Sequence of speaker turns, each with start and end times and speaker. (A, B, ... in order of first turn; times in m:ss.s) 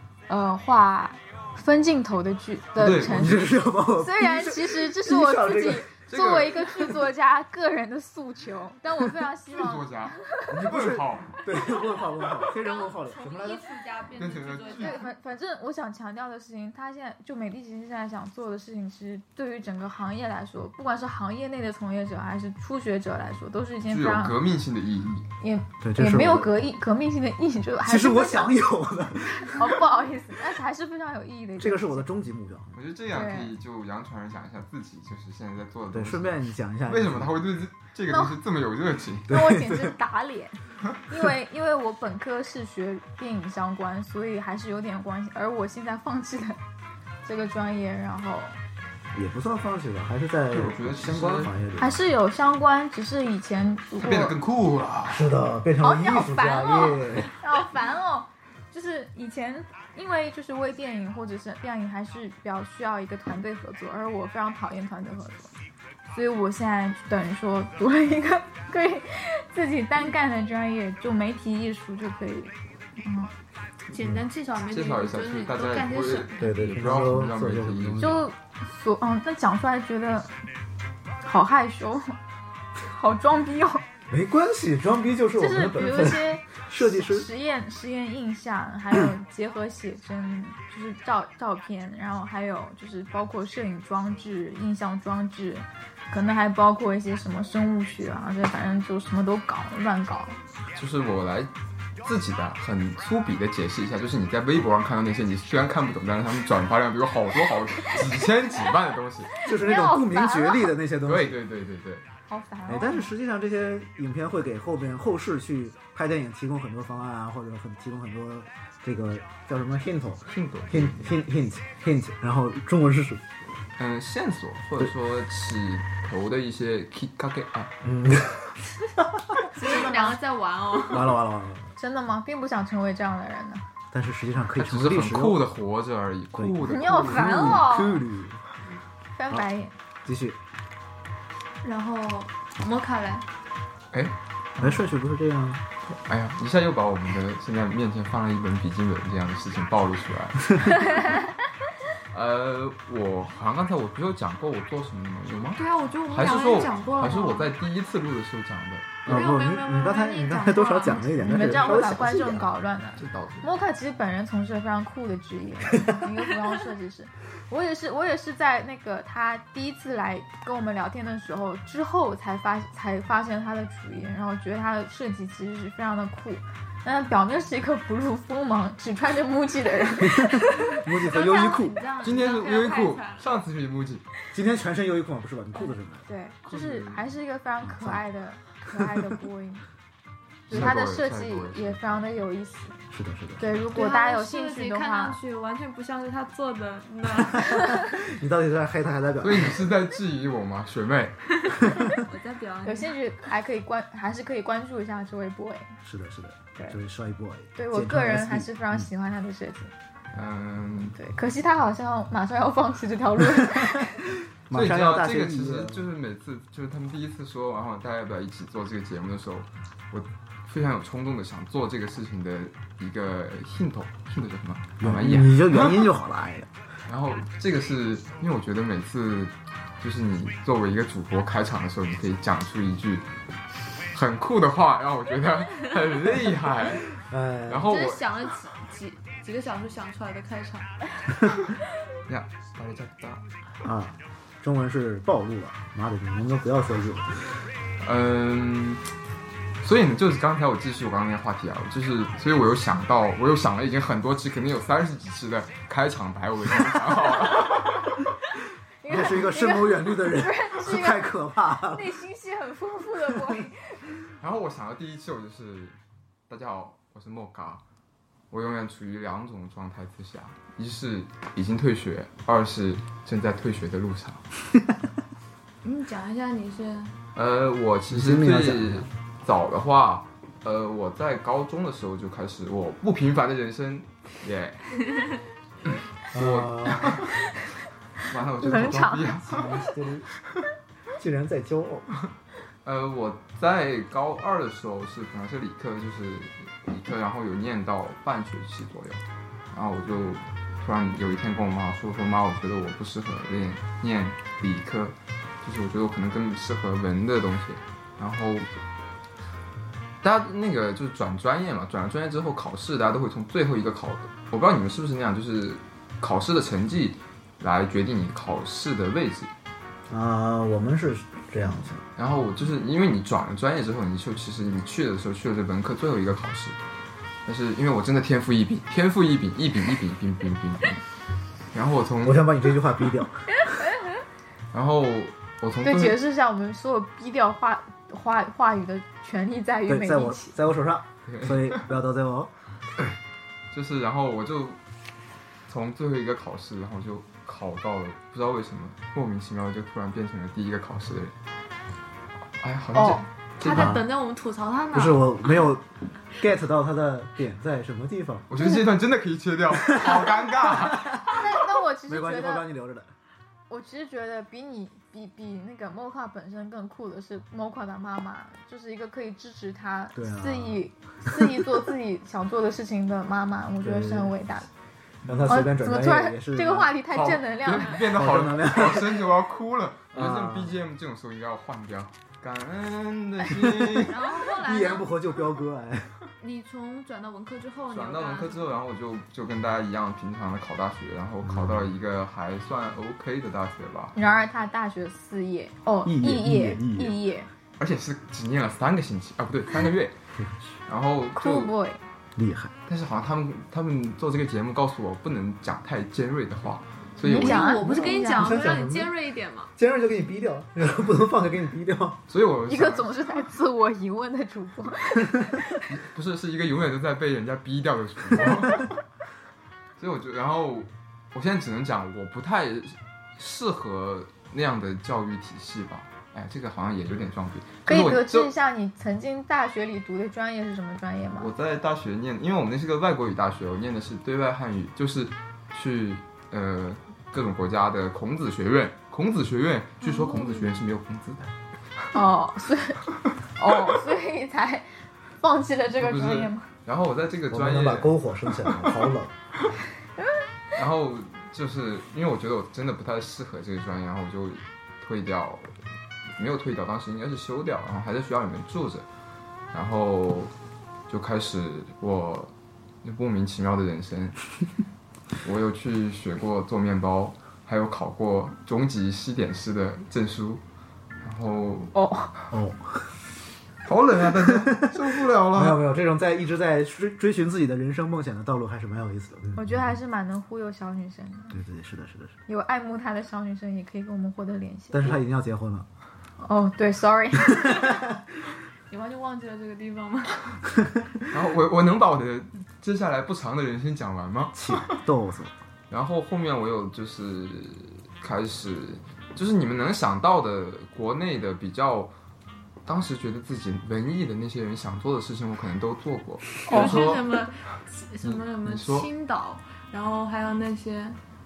0:00.3-0:10.6 A
0:02.8-0:03.6 B
0:03.0-0:05.9 C
0:06.1-0:07.0 B
0:09.5-0:11.4 B
0:10.5-0:13.7 C
0:12.4-0:15.1 D
0:14.2-0:15.0 B
0:14.6-0:24.3 A
0:23.9-0:25.3 B
0:25.4-0:28.6 A
0:25.8-0:26.5 C
0:27.8-0:29.8 C
0:29.4-0:32.1 A
0:31.6-0:32.7 C
0:32.7-0:39.4 B
0:33.1-0:33.6 A
0:35.9-0:37.4 C
0:38.1-0:38.4 A
0:39.3-0:39.9 C
0:39.3-0:46.6 A
0:47.2-0:48.6 A
0:49.1-0:52.0 C
0:50.5-0:51.5 B
0:51.8-0:54.4 A
0:54.0-0:55.2 B
0:55.1-0:57.3 C
0:55.8-1:05.5 A
1:06.1-1:13.3 A
1:13.9-1:16.5 D
1:14.0-1:14.2 C
1:14.7-1:18.2 B
1:16.4-1:18.2 C
1:18.0-1:20.3 A
1:21.2-1:22.2 A
1:22.8-1:23.8 A
1:24.1-1:27.3 C
1:25.4-1:40.4 A
1:40.7-1:49.3 B
1:49.4-1:50.7 A
1:49.4-1:51.4 C
1:51.0-1:52.0 B
1:52.3-1:53.1 A
1:52.7-2:03.2 C
2:00.3-2:01.0 B
2:03.8-2:07.7 B
2:07.8-2:09.8 C
2:09.5-2:11.2 D
2:09.6-2:10.1 A
2:10.9-2:11.7 C
2:11.8-2:13.6 A
2:13.9-2:15.4 C
2:14.5-2:17.6 B
2:16.4-2:18.4 C
2:16.6-2:18.0 A
2:19.2-2:19.7 A
2:20.0-2:20.4 C
2:21.6-2:23.2 D
2:23.9-2:24.8 B
2:24.6-2:25.6 C
2:26.0-2:31.2 B
2:32.1-2:39.1 B
2:35.6-2:37.5 D
2:39.0-2:42.5 C
2:39.0-2:41.5 D
2:41.2-3:00.8 A
2:43.0-2:43.5 B
3:00.0-3:01.8 C
3:00.9-3:03.4 D
3:02.0-3:04.1 B
3:04.3-3:06.0 C
3:06.0-3:09.6 A
3:06.4-3:07.0 B
3:07.7-3:08.0 C
3:08.8-3:09.2 C
3:10.5-3:12.8 A
3:10.5-3:12.0 B
3:10.5-3:10.8 C
3:12.9-3:13.4 C
3:13.4-3:15.2 A
3:13.7-3:17.9 D
3:17.3-3:19.6 C
3:19.2-3:21.2 B
3:21.9-3:22.9 D
3:22.6-3:25.8 A
3:25.8-3:28.9 C
3:27.6-3:29.7 A
3:30.1-3:31.0 B
3:31.0-3:34.0 A
3:33.5-3:33.9 C
3:34.5-3:35.9 C
3:34.5-3:45.9 B
3:44.8-3:46.5 C
3:46.9-3:53.1 B
3:53.9-3:56.9 B
3:56.9-3:57.7 C
3:57.5-3:58.0 B
3:57.7-4:00.7 D
4:02.1-4:03.2 B
4:03.6-4:07.2 C
4:07.8-4:08.8 B
4:09.6-4:18.0 B
4:18.8-4:23.9 A
4:18.9-4:22.0 C
4:24.2-4:25.8 B
4:26.3-4:27.6 B
4:28.3-4:34.2 B
4:35.6-4:36.9 D
4:37.1-4:44.8 B
4:37.9-4:38.9 C
4:45.6-4:47.1 B
4:46.1-4:47.0 C
4:48.1-4:49.5 B
4:48.4-4:49.1 A
4:49.2-4:50.1 C
4:51.0-4:51.9 C
4:52.6-5:08.5 B
5:10.0-5:19.3 B
5:19.9-5:21.8 C
5:22.0-5:26.6 B
5:27.2-5:30.8 B
5:31.5-5:32.3 B
5:32.0-5:33.6 C
5:34.5-5:36.0 B
5:35.6-5:40.4 A
5:39.7-5:42.3 C
5:41.1-5:41.6 B
5:43.5-5:44.6 B
5:45.5-5:51.1 B
5:52.4-5:53.7 B
5:53.4-5:55.1 D
5:53.4-5:53.8 C
5:54.7-5:58.3 C
5:58.3-6:01.2 B
5:59.5-6:01.3 C
6:01.1-6:02.5 A
6:01.8-6:02.9 C
6:03.5-6:14.5 A
6:09.9-6:11.5 C
6:13.6-6:14.1 C
6:15.0-6:15.3 B
6:15.0-6:16.8 C
6:15.3-6:17.9 A
6:16.9-6:24.0 B
6:17.6-6:19.1 C
6:19.9-6:20.6 C
6:23.4-6:23.8 C
6:23.8-6:25.1 D
6:24.4-6:26.0 C
6:26.2-6:28.6 D
6:27.7-6:33.9 B
6:31.2-6:31.7 C
6:33.9-6:37.3 A
6:35.8-6:37.0 C
6:37.6-6:40.0 B
6:40.6-6:41.5 B
6:41.2-6:41.8 A
6:42.2-6:42.5 C
6:42.6-6:47.6 B
6:47.0-6:48.4 A
6:47.0-6:49.5 D
6:47.6-6:48.9 C
6:49.6-6:52.0 C
6:52.1-6:52.9 B
6:52.5-6:55.6 A
6:55.7-6:58.8 B
6:59.8-7:08.3 B
7:07.6-7:11.3 A
7:11.2-7:21.3 B
7:19.8-7:20.6 D
7:21.9-7:22.8 A
7:23.4-7:24.7 A
7:25.2-7:26.5 A
7:25.7-7:28.7 B
7:27.3-7:29.1 C
7:30.5-7:35.5 B
7:36.1-7:38.8 B
7:39.5-7:40.3 B
7:40.9-7:42.3 B
7:42.8-7:44.2 B
7:45.2-7:50.4 B
7:51.0-7:51.7 B
7:51.7-7:52.1 A
7:52.3-7:52.8 C
7:53.6-7:55.6 B
7:54.2-7:59.8 C
7:59.4-8:01.4 A
8:01.3-8:02.1 C
8:02.3-8:05.0 A
8:04.7-8:05.7 C
8:06.2-8:07.8 A
8:07.5-8:07.8 C
8:08.7-8:10.4 D
8:11.1-8:14.8 B
8:14.3-8:15.3 C
8:15.7-8:21.9 B
8:22.6-8:27.1 B
8:26.4-8:31.0 D
8:26.5-8:26.9 A
8:28.0-8:28.9 B